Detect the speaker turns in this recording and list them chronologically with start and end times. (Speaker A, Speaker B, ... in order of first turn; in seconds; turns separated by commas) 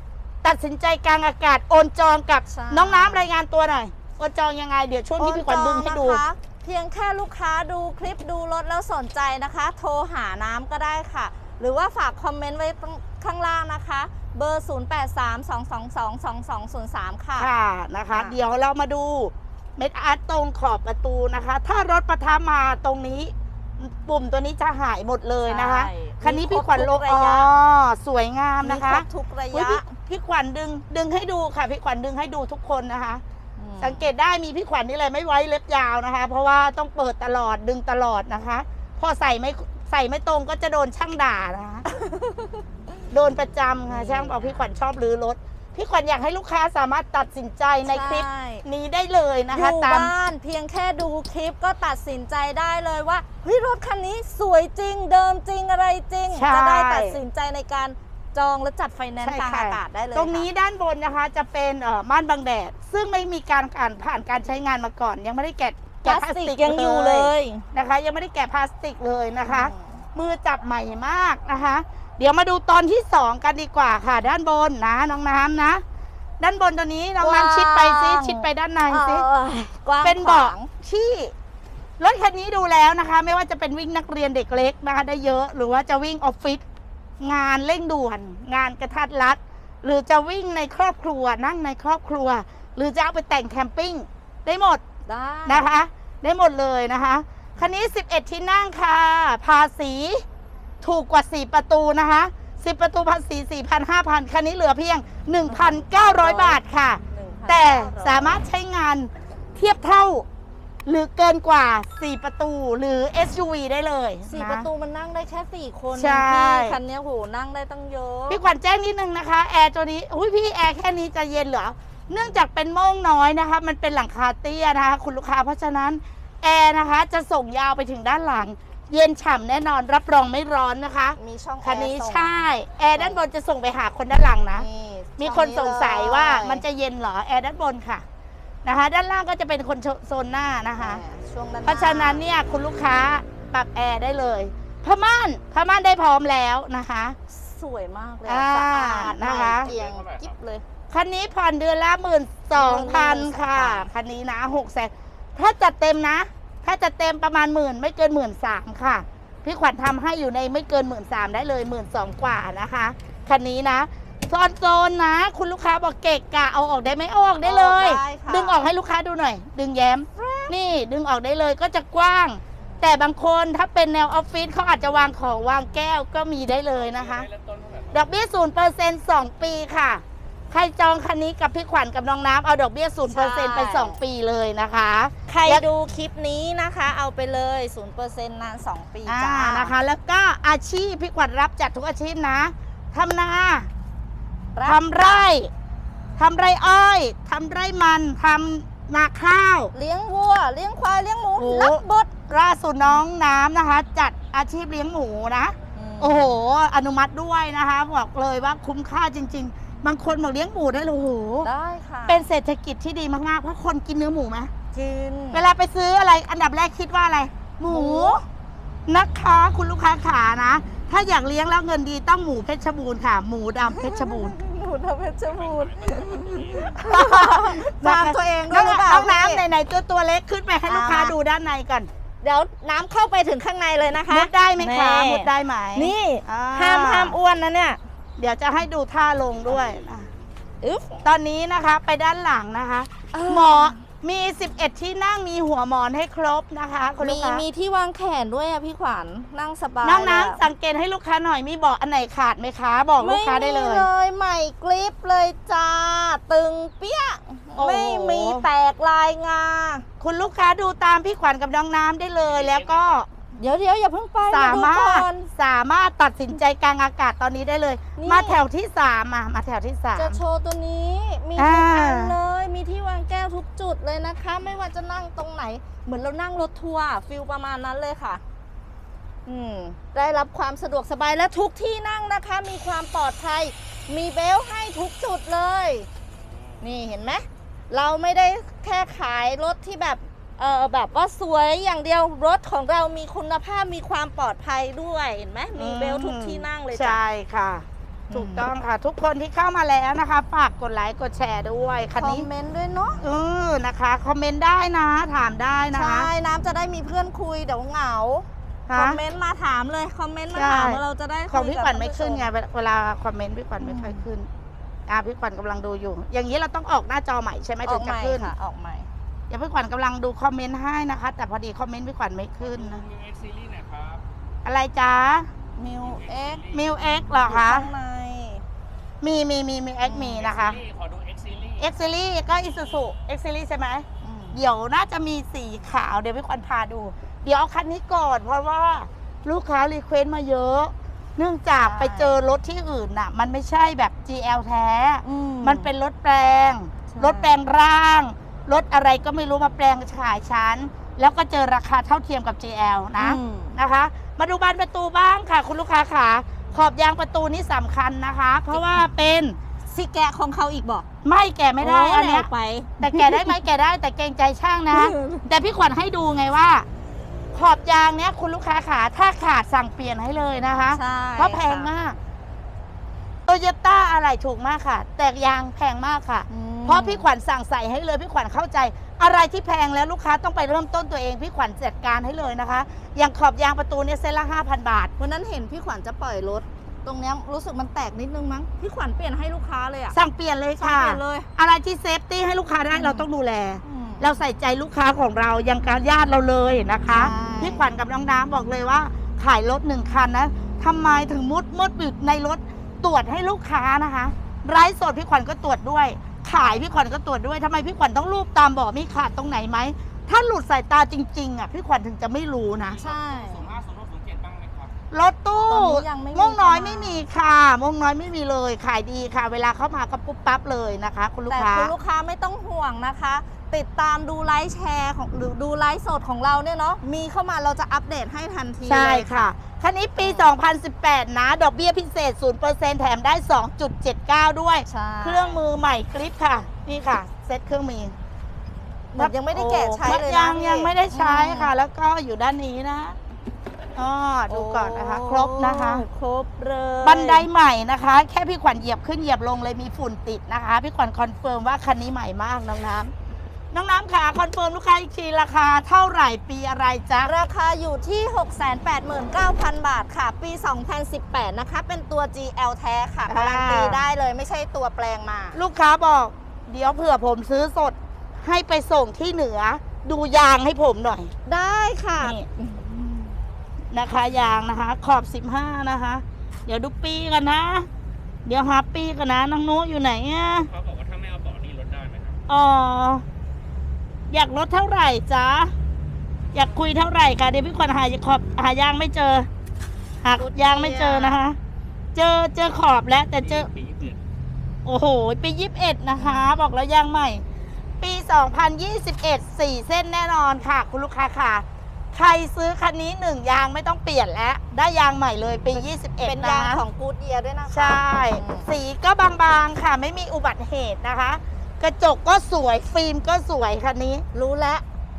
Speaker A: 0.4-6.2, Speaker B: 2.5-3.2, Speaker B: 5.2-17.5, Speaker A: 17.4-33.2, Speaker B: 25.4-27.5, Speaker B: 28.6-29.8, Speaker B: 33.6-34.0, Speaker A: 33.8-41.9, Speaker B: 41.9-42.6, Speaker A: 43.1-50.1, Speaker B: 43.9-44.6, Speaker B: 47.9-48.6, Speaker B: 49.5-60.5, Speaker A: 56.3-57.2, Speaker A: 59.2-75.8, Speaker B: 66.0-67.6, Speaker B: 69.4-70.0, Speaker A: 76.4-79.2, Speaker B: 77.2-80.7, Speaker A: 80.0-81.3, Speaker A: 82.0-86.6, Speaker A: 87.2-94.8, Speaker B: 95.0-95.7, Speaker A: 95.5-100.2, Speaker A: 100.8-110.2, Speaker B: 105.5-108.4, Speaker A: 110.8-114.7, Speaker B: 114.3-118.4, Speaker A: 115.9-116.8, Speaker A: 118.3-134.7, Speaker B: 131.2-133.2, Speaker B: 134.5-136.6, Speaker A: 135.2-138.0, Speaker A: 138.6-141.0, Speaker B: 140.8-142.2, Speaker A: 141.6-147.2, Speaker B: 147.3-150.6, Speaker A: 148.2-149.7, Speaker C: 149.6-150.3, Speaker A: 150.9-177.3, Speaker B: 152.5-153.9, Speaker B: 167.4-168.6, Speaker B: 170.1-170.6, Speaker B: 172.6-173.0, Speaker C: 176.7-178.1, Speaker A: 177.9-185.7, Speaker B: 183.1-184.0, Speaker B: 185.3-189.7, Speaker A: 189.1-193.7, Speaker B: 194.5-195.2, Speaker A: 194.6-195.5, Speaker A: 196.2-199.7, Speaker B: 199.7-202.2, Speaker A: 201.4-211.5, Speaker B: 205.7-206.4, Speaker B: 211.4-212.2, Speaker A: 212.1-214.5, Speaker B: 214.7-215.4, Speaker A: 215.3-218.2, Speaker B: 217.7-218.2, Speaker A: 218.9-224.3, Speaker B: 223.7-229.4, Speaker C: 225.2-226.8, Speaker A: 226.7-231.9, Speaker B: 230.7-231.1, Speaker B: 232.2-237.8, Speaker A: 234.1-237.2, Speaker A: 238.2-240.1, Speaker B: 240.6-241.0, Speaker A: 241.0-247.4, Speaker B: 243.1-243.8, Speaker B: 247.0-250.4, Speaker A: 249.8-253.9, Speaker B: 253.0-259.9, Speaker A: 257.5-258.4, Speaker A: 260.0-263.1, Speaker C: 262.2-263.1, Speaker B: 263.4-265.3, Speaker A: 264.3-270.2, Speaker B: 267.9-268.4, Speaker B: 269.9-278.2, Speaker A: 271.4-272.1, Speaker B: 279.2-285.9, Speaker C: 286.2-286.6, Speaker B: 286.6-297.0, Speaker A: 295.6-302.3, Speaker B: 298.1-298.5, Speaker B: 302.0-303.0, Speaker A: 303.0-306.1, Speaker B: 305.7-312.3, Speaker A: 308.7-309.0, Speaker A: 310.3-314.3, Speaker B: 313.6-314.0, Speaker A: 314.9-318.3, Speaker B: 317.6-318.9, Speaker A: 319.3-322.8, Speaker C: 322.4-324.0, Speaker A: 324.4-325.3, Speaker B: 325.6-326.4, Speaker C: 325.7-326.9, Speaker A: 326.5-327.7, Speaker B: 327.2-328.4, Speaker A: 329.0-330.6, Speaker B: 329.8-330.2, Speaker C: 330.1-331.7, Speaker A: 331.6-359.4, Speaker B: 334.0-334.4, Speaker B: 341.6-342.1, Speaker B: 345.0-345.7, Speaker B: 346.9-347.4, Speaker B: 353.0-353.6, Speaker B: 358.5-358.8, Speaker B: 359.7-360.9, Speaker A: 361.0-362.3, Speaker B: 361.6-363.3, Speaker A: 362.8-366.6, Speaker B: 364.7-365.3, Speaker A: 367.3-372.0, Speaker B: 370.7-371.7, Speaker A: 373.3-384.9, Speaker B: 376.3-377.0, Speaker B: 385.0-390.0, Speaker A: 389.9-412.8, Speaker B: 390.6-391.3, Speaker B: 392.7-393.1, Speaker B: 393.6-394.0, Speaker B: 396.9-397.7, Speaker B: 406.3-406.6, Speaker C: 412.5-414.7, Speaker B: 412.8-413.5, Speaker A: 414.9-421.7, Speaker B: 415.5-417.0, Speaker B: 421.3-429.3, Speaker A: 428.6-437.9, Speaker B: 430.0-430.3, Speaker B: 434.6-435.4, Speaker B: 438.9-441.5, Speaker A: 439.0-443.0, Speaker A: 443.8-445.8, Speaker B: 444.3-447.3, Speaker A: 446.8-452.9, Speaker A: 453.5-457.1, Speaker B: 457.0-465.4, Speaker A: 463.1-463.8, Speaker A: 465.3-471.1, Speaker B: 471.2-473.1, Speaker A: 472.0-472.3, Speaker A: 473.7-477.7, Speaker A: 478.2-480.5, Speaker C: 480.5-482.2, Speaker A: 482.3-483.0, Speaker A: 484.1-485.5, Speaker A: 486.3-489.3, Speaker A: 490.0-491.4, Speaker B: 490.2-491.1, Speaker A: 491.9-493.5, Speaker C: 493.1-494.0, Speaker A: 494.6-497.2, Speaker B: 496.0-496.3, Speaker A: 497.8-506.6, Speaker B: 506.0-508.5, Speaker A: 507.5-514.0, Speaker B: 514.1-514.6